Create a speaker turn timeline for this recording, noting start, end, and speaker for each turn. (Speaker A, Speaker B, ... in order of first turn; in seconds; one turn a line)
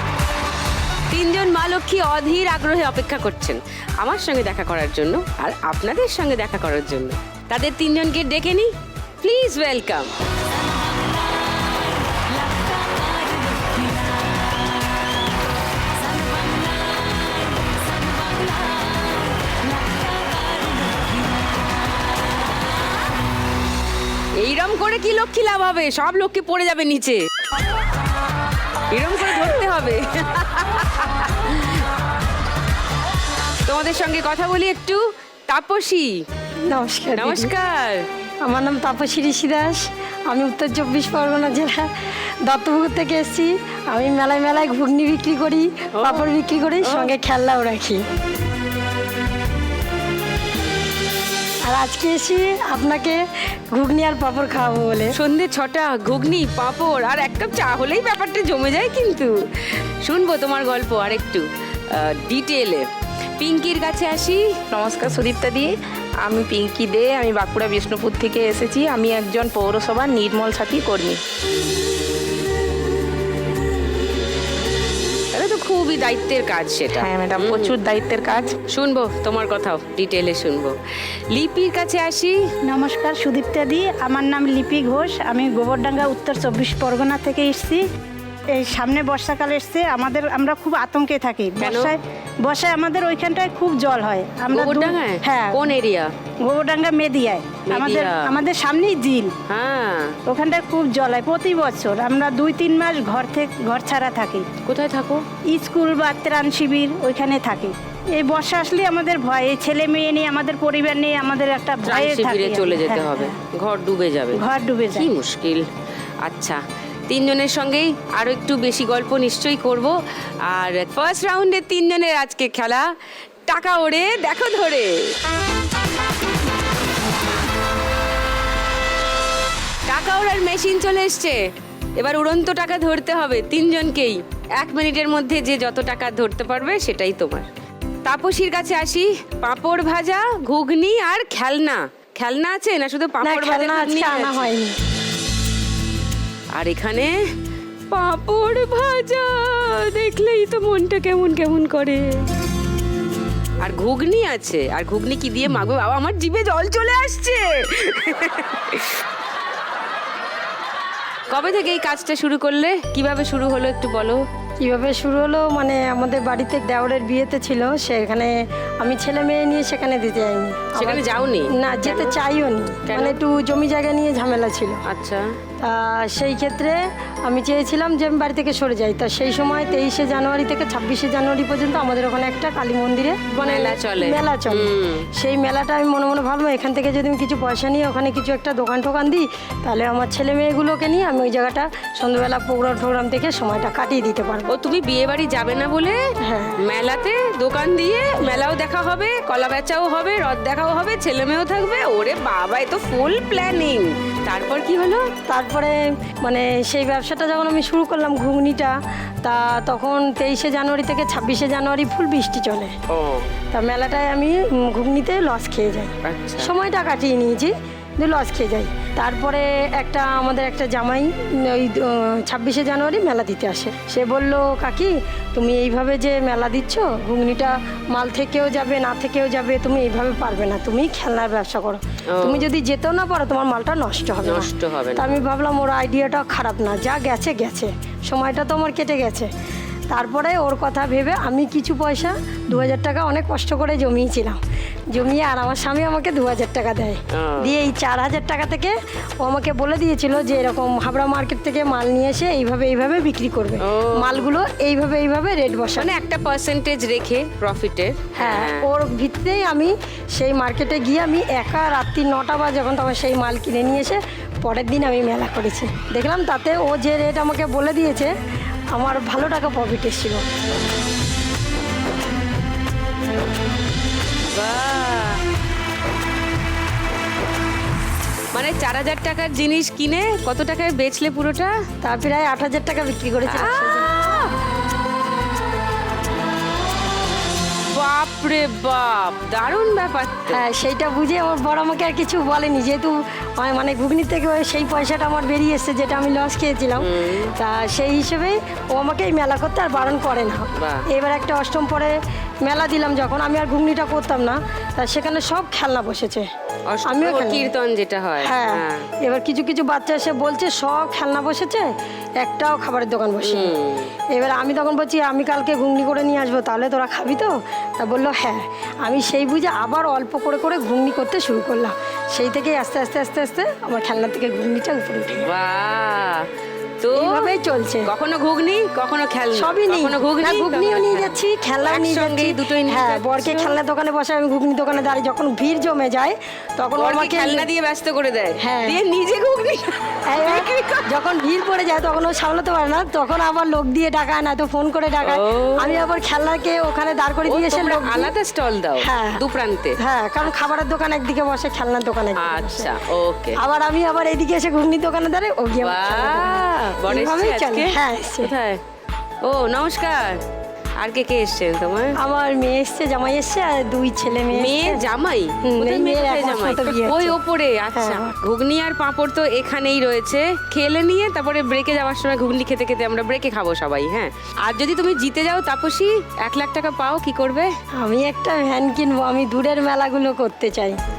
Speaker A: 1.1-8.7
Speaker A: 9.2-10.1
Speaker A: 24.4-27.2
Speaker A: 28.9-31.8
Speaker A: 33.7-36.2
Speaker B: 36.7-37.5
Speaker A: 37.1-38.0
Speaker B: 38.4-41.9
Speaker B: 42.4-48.0
Speaker A: 45.9-46.3
Speaker A: 46.8-47.1
Speaker B: 51.6-55.1
Speaker A: 55.1-62.9
Speaker A: 63.4-64.5
Speaker C: 64.7-71.2
Speaker A: 75.3-77.7
Speaker C: 77.0-78.6
Speaker A: 78.7-82.4
Speaker D: 82.7-87.8
Speaker D: 88.5-95.6
Speaker A: 91.6-91.9
Speaker A: 94.5-96.1
Speaker D: 96.4-99.3
Speaker A: 97.7-98.3
Speaker A: 99.5-100.2
Speaker D: 100.3-104.5
Speaker A: 104.6-105.2
Speaker D: 105.5-113.3
Speaker A: 111.8-114.4
Speaker D: 114.3-115.1
Speaker A: 114.9-115.7
Speaker A: 116.2-119.9
Speaker A: 120.5-122.9
Speaker A: 123.5-125.1
Speaker A: 129.9-131.4
Speaker A: 132.0-137.4
Speaker A: 138.0-144.5
Speaker B: 143.2-144.8
Speaker A: 146.5-147.1
Speaker A: 147.9-152.2
Speaker A: 153.6-159.0
Speaker A: 161.3-164.2
Speaker B: 164.6-174.8
Speaker A: 170.8-172.2
Speaker A: 172.8-173.2
Speaker A: 174.9-175.2
Speaker B: 175.6-194.5
Speaker A: 183.3-185.1
Speaker A: 194.5-196.0
Speaker B: 196.2-196.6
Speaker A: 196.6-205.1
Speaker B: 205.3-212.7
Speaker A: 212.9-213.3
Speaker B: 213.5-239.3
Speaker A: 216.0-216.5
Speaker A: 232.1-232.4
Speaker A: 234.2-235.2
Speaker B: 239.9-255.9
Speaker A: 247.1-247.5
Speaker A: 253.6-254.2
Speaker A: 255.8-258.7
Speaker B: 258.2-268.1
Speaker B: 268.7-270.2
Speaker A: 274.3-275.2
Speaker A: 278.3-281.5
Speaker B: 281.8-283.9
Speaker A: 283.2-284.3
Speaker A: 287.7-290.4
Speaker B: 290.3-306.3
Speaker A: 296.8-297.3
Speaker A: 300.6-300.9
Speaker A: 306.7-308.9
Speaker B: 306.9-307.5
Speaker B: 308.2-313.5
Speaker A: 313.2-313.9
Speaker B: 314.1-325.3
Speaker A: 325.2-326.3
Speaker A: 326.8-327.3
Speaker B: 326.9-327.9
Speaker A: 327.9-331.1
Speaker B: 329.3-337.5
Speaker A: 331.6-333.5
Speaker A: 336.8-340.9
Speaker B: 338.4-338.8
Speaker B: 340.1-348.1
Speaker A: 345.0-345.8
Speaker A: 347.3-349.8
Speaker B: 348.8-349.2
Speaker B: 349.8-352.7
Speaker A: 352.2-353.4
Speaker B: 353.4-358.3
Speaker A: 355.6-358.6
Speaker A: 359.2-360.2
Speaker A: 360.8-361.9
Speaker B: 362.0-364.9
Speaker A: 364.3-377.5
Speaker B: 365.4-367.2
Speaker B: 367.7-368.1
Speaker B: 377.8-380.8